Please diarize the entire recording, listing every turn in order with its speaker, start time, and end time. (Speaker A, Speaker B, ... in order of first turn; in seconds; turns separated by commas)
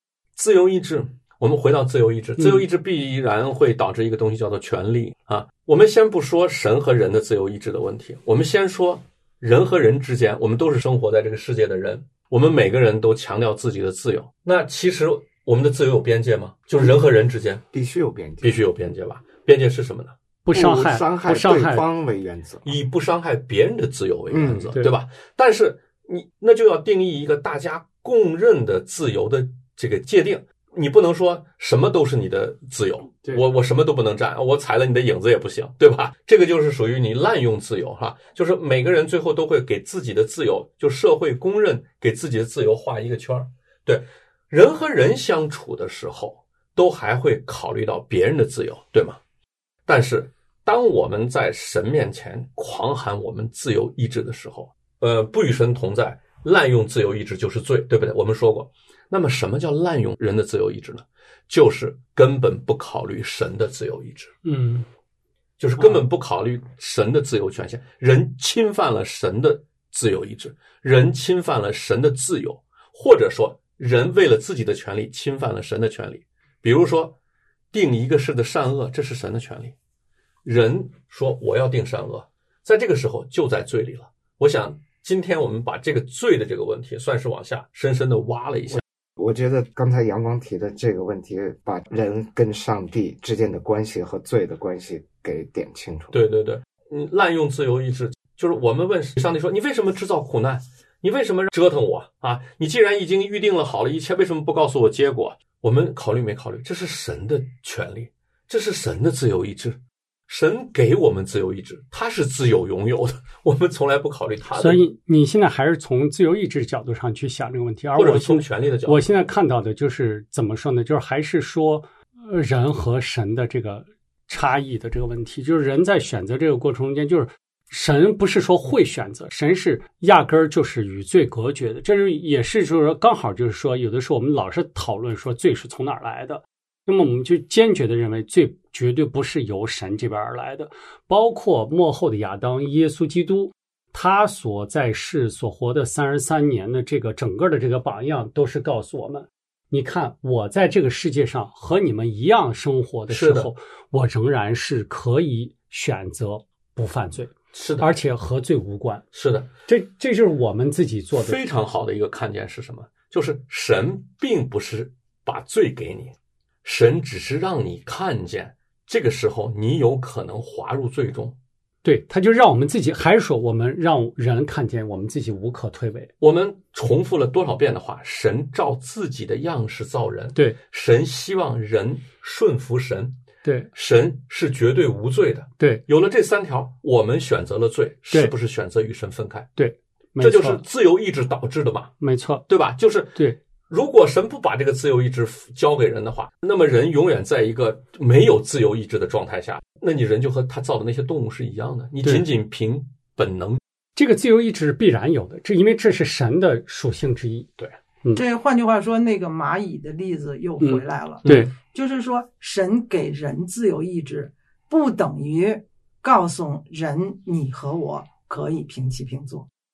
Speaker A: 0.4-17.6, Speaker B: 17.7-18.6, Speaker A: 18.4-20.1, Speaker C: 20.4-21.9, Speaker B: 20.5-22.8, Speaker A: 22.6-49.2, Speaker B: 24.3-24.7, Speaker A: 49.9-64.3, Speaker C: 64.4-64.9, Speaker A: 65.6-77.2, Speaker A: 77.7-79.7, Speaker A: 80.4-88.8, Speaker B: 88.7-96.1, Speaker A: 96.1-114.8, Speaker C: 114.5-159.1, Speaker A: 118.0-119.0, Speaker A: 153.1-153.5, Speaker A: 157.5-157.9, Speaker A: 159.1-159.5, Speaker C: 159.7-161.4, Speaker A: 161.2-171.4, Speaker C: 171.8-176.1, Speaker A: 176.2-183.2, Speaker C: 183.4-183.7, Speaker A: 183.8-189.5, Speaker C: 189.6-190.6, Speaker A: 190.2-191.9, Speaker C: 192.0-192.4, Speaker A: 192.5-203.6, Speaker C: 204.0-207.5, Speaker D: 208.1-219.5, Speaker C: 210.6-211.5